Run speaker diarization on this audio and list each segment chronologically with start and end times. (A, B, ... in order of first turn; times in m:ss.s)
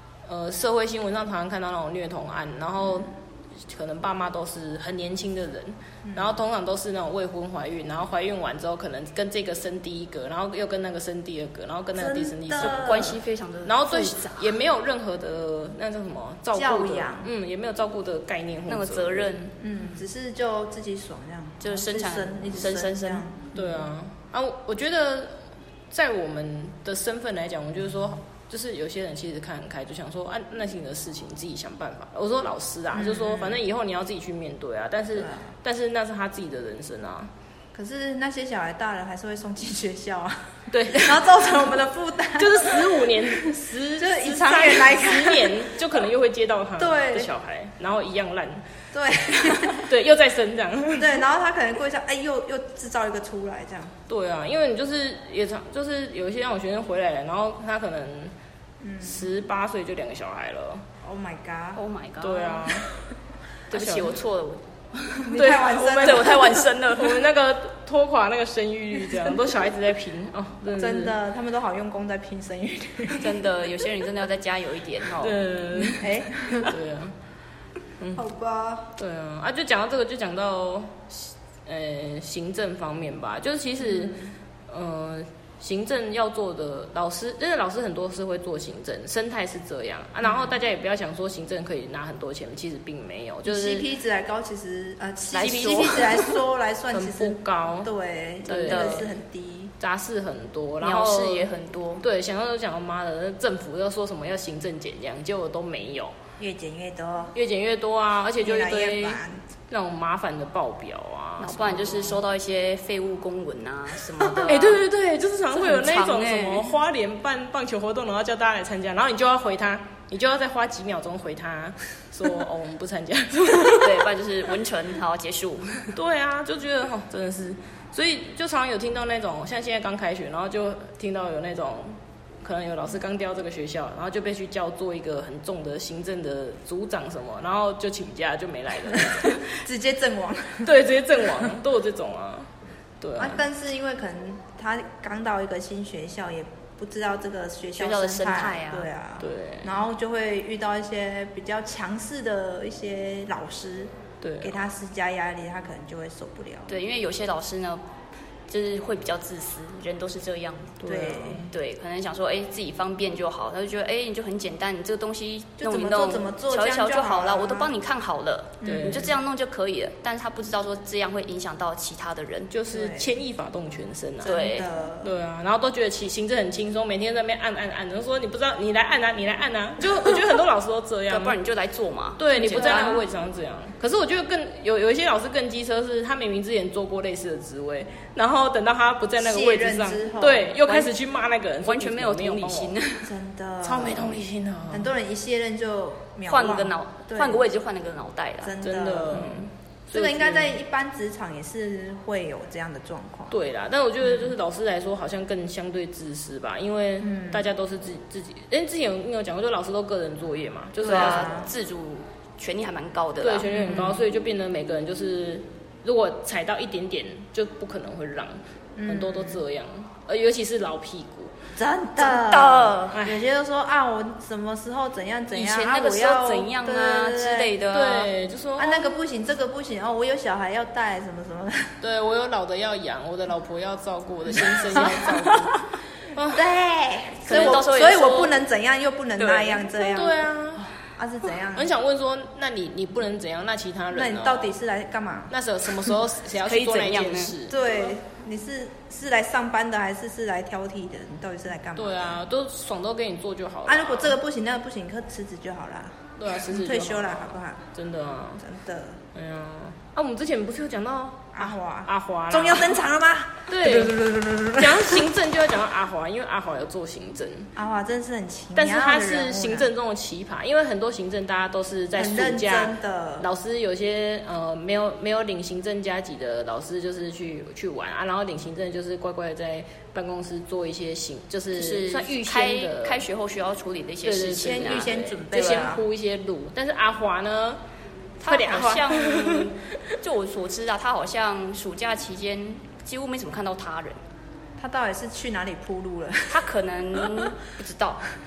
0:00.3-0:03.1 A
0:03.7-0:13.0 A
0:06.0-0:06.4 B
0:12.0-0:13.2 B
0:12.6-0:14.6 C
0:13.7-0:19.5 A
0:16.5-0:17.3 B
0:18.7-0:19.5 C
0:19.6-0:23.8 B
0:21.6-0:23.3 C
0:23.5-0:25.4 A
0:25.9-0:37.3 A
0:32.9-0:33.6 B
0:35.1-0:35.5 B
0:37.7-0:45.8 B
0:40.7-0:41.3 A
0:42.4-0:48.6 A
0:46.8-0:47.3 B
0:48.9-0:49.9 B
0:49.3-0:51.2 A
0:51.0-0:53.9 B
0:54.1-0:58.3 A
0:58.8-0:59.3 B
0:59.0-1:00.8 A
1:01.0-1:01.8 B
1:01.8-1:02.8 C
1:02.2-1:02.9 A
1:03.7-1:04.2 A
1:03.7-1:07.2 C
1:05.2-1:06.5 B
1:05.3-1:11.2 A
1:10.8-1:13.4 B
1:13.2-1:15.4 C
1:15.2-1:17.2 A
1:16.0-1:16.7 B
1:18.2-1:18.9 B
1:19.0-1:33.9 A
1:23.8-1:24.3 B
1:30.2-1:30.6 B
1:33.4-1:39.7 B
1:35.3-1:36.1 C
1:36.9-1:37.9 A
1:38.4-1:39.1 C
1:38.5-1:39.1 A
1:39.8-1:41.5 A
1:40.8-1:42.0 C
1:42.0-1:46.1 A
1:46.4-1:47.3 B
1:47.4-1:52.2 A
1:48.4-1:49.4 B
1:51.4-1:54.8 C
1:54.5-2:04.1 A
1:55.5-1:56.7 C
2:03.8-2:05.9 C
2:06.0-2:19.6 A
2:18.9-2:20.8 B
2:20.6-2:22.5 A
2:23.0-2:23.4 A
2:23.2-2:36.8 B
2:27.8-2:28.9 C
2:29.2-2:29.8 A
2:34.2-2:34.6 A
2:36.7-2:37.8 C
2:38.5-2:40.8 C
2:40.8-2:41.5 A
2:40.8-2:41.5 B
2:41.5-2:52.5 C
2:45.6-2:47.7 B
2:48.6-2:49.1 B
2:48.6-2:49.1 A
2:52.5-2:54.5 A
2:52.7-2:53.1 B
2:54.2-2:54.7 C
2:54.3-2:55.1 B
2:55.0-3:01.4 A
3:01.1-3:03.0 C
3:02.2-3:12.8 A
3:02.3-3:03.1 B
3:09.2-3:11.0 B
3:11.6-3:13.1 C
3:13.0-3:14.2 B
3:13.6-3:14.9 A
3:14.7-3:17.4 B
3:16.3-3:18.6 C
3:18.4-3:23.4 B
3:18.6-3:20.6 A
3:23.3-3:31.5 A
3:24.0-3:24.4 B
3:27.0-3:27.5 B
3:30.8-3:31.5 B
3:30.8-3:33.5 C
3:33.2-3:41.3 A
3:33.5-3:34.0 B
3:38.8-3:39.4 B
3:41.6-3:47.6 B
3:42.0-3:43.0 C
3:42.9-3:43.2 A
3:45.3-3:48.1 C
3:47.7-3:49.0 A
3:48.6-3:51.7 B
3:51.8-3:56.4 A
3:54.3-3:55.5 B
3:56.3-4:01.7 B
3:57.2-3:57.7 A
3:57.3-3:58.4 C
3:59.2-3:59.7 C
3:59.8-4:00.7 A
4:01.5-4:04.5 A
4:03.9-4:05.3 B
4:05.3-4:07.6 A
4:06.4-4:07.4 C
4:07.5-4:12.2 B
4:11.8-4:14.2 A
4:13.7-4:17.7 B
4:16.2-4:18.4 A
4:18.4-4:19.0 B
4:19.2-4:22.8 A
4:21.3-4:25.1 B
4:23.5-4:27.5 A
4:27.6-4:29.7 B
4:28.6-4:43.0 A
4:32.0-4:33.3 B
4:41.6-4:45.7 C
4:44.0-4:47.6 A
4:44.4-4:45.8 B
4:48.2-4:54.0 C
4:48.3-4:49.6 A
4:54.6-4:56.4 B
4:56.3-4:58.0 C